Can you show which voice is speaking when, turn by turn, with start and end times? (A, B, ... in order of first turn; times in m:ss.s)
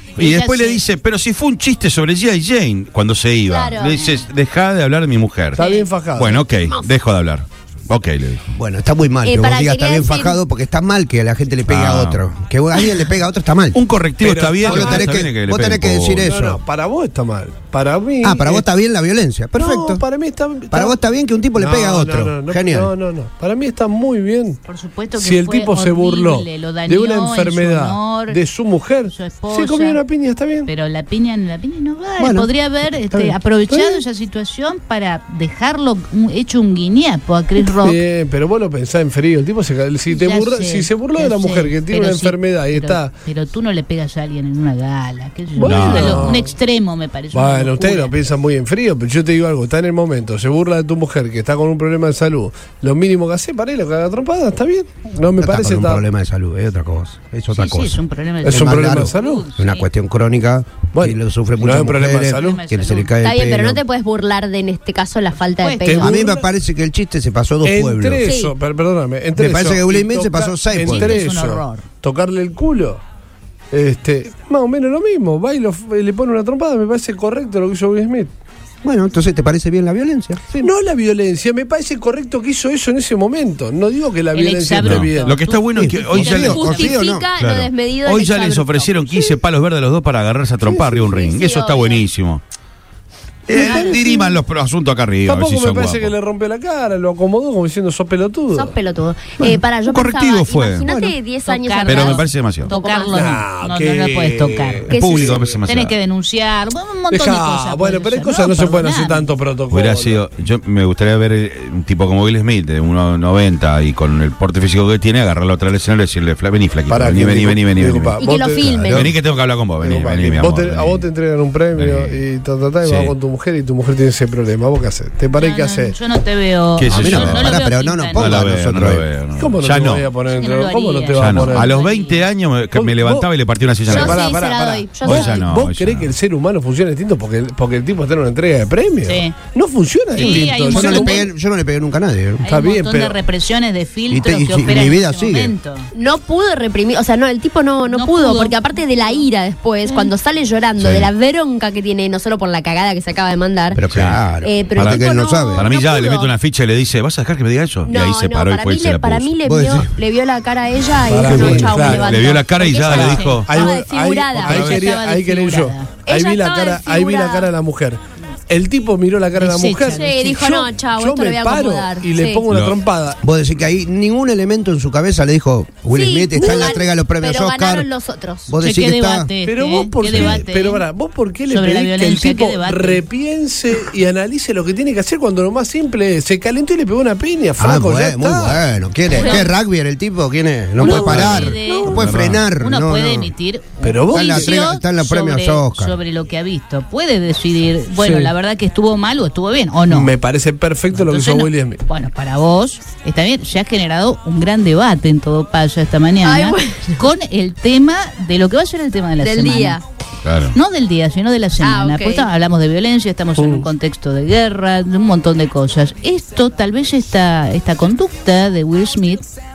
0:00.2-0:00.8 A
0:00.2-0:05.6 B
0:03.5-0:04.1 C
0:05.6-0:06.4 D
0:05.6-0:05.8 A
0:06.2-0:08.4 B
0:08.5-0:13.8 E
0:09.2-0:10.4 C
0:11.7-0:12.2 B
0:13.7-0:16.3 B
0:14.2-0:15.2 D
0:14.6-0:16.6 E
0:16.2-0:18.6 D
0:18.2-0:20.0 E
0:19.6-0:21.0 D
0:20.7-0:22.9 E
0:21.6-0:24.6 D
0:24.7-0:28.4 A
0:25.2-0:30.7 D
0:29.1-0:30.0 A
0:30.6-0:38.0 A
0:32.2-0:32.5 E
0:33.7-0:34.0 D
0:37.6-0:43.1 D
0:40.1-0:48.1 A
0:45.6-0:46.5 D
0:45.6-0:46.4 B
0:47.3-0:56.0 D
0:55.4-0:58.0 E
0:57.5-0:59.8 A
0:58.4-0:59.4 D
0:58.5-1:03.8 E
1:00.9-1:02.6 D
1:02.3-1:03.1 A
1:03.2-1:06.1 C
1:05.6-1:06.1 A
1:05.8-1:06.5 D
1:06.0-1:08.3 E
1:07.6-1:13.0 D
1:08.2-1:08.5 C
1:09.4-1:11.2 E
1:10.8-1:11.8 A
1:13.7-1:18.3 D
1:18.8-1:20.7 E
1:20.6-1:25.4 D
1:24.3-1:26.2 A
1:24.8-1:32.4 B
1:25.8-1:27.2 E
1:26.1-1:29.4 C
1:30.6-1:32.0 C
1:33.5-1:36.1 B
1:33.5-1:34.1 D
1:33.7-1:34.0 A
1:35.2-1:38.7 D
1:38.5-1:43.3 C
1:39.4-1:40.9 B
1:41.4-1:44.9 A
1:41.8-1:42.7 B
1:43.1-1:45.6 D
1:44.9-1:46.0 B
1:44.9-1:45.5 C
1:45.6-1:49.3 A
1:47.1-1:50.2 D
1:49.7-1:58.2 B
1:56.9-1:58.9 D
1:58.2-1:59.1 C
1:58.6-1:59.0 E
1:58.9-2:01.0 B
1:59.8-2:05.9 D
2:01.8-2:02.2 B
2:02.8-2:03.1 B
2:05.4-2:08.2 A
2:06.8-2:07.5 B
2:06.9-2:09.0 E
2:08.1-2:10.1 B
2:09.4-2:11.7 D
2:10.4-2:12.2 A
2:11.2-2:16.1 B
2:12.7-2:13.3 D
2:13.9-2:15.5 C
2:13.9-2:21.2 D
2:19.0-2:19.4 A
2:20.1-2:21.2 A
2:20.2-2:22.4 E
2:22.4-2:25.9 A
2:22.5-2:23.2 D
2:24.1-2:25.5 E
2:25.9-2:33.8 C
2:27.9-2:29.2 A
2:29.8-2:30.1 A
2:30.8-2:31.1 B
2:33.7-2:35.7 E
2:33.9-2:34.2 B
2:34.4-2:36.3 C
2:34.8-2:39.3 B
2:37.8-2:44.7 C
2:39.4-2:39.9 E
2:41.1-2:42.2 D
2:41.4-2:43.7 B
2:42.9-2:53.2 D
2:43.0-2:43.4 A
2:44.4-2:44.8 B
2:44.4-2:46.0 A
2:46.0-2:47.5 C
2:49.4-2:50.2 A
2:49.8-2:52.4 C
2:52.5-2:52.8 B
2:53.2-2:57.9 E
2:55.9-2:58.5 C
2:58.5-2:59.3 E
2:58.6-3:00.9 A
2:59.4-3:08.6 D
3:01.5-3:03.0 A
3:07.6-3:13.3 E
3:09.1-3:09.4 A
3:10.8-3:12.0 A
3:10.8-3:11.9 D
3:11.0-3:12.4 B
3:12.6-3:20.1 A
3:13.8-3:14.5 D
3:14.1-3:16.0 E
3:18.0-3:18.3 D
3:19.9-3:21.8 D
3:20.9-3:29.8 A
3:26.2-3:27.0 C
3:29.2-3:29.8 C
3:30.2-3:30.5 B
3:30.5-3:39.2 A
3:31.6-3:32.3 C
3:33.4-3:33.7 D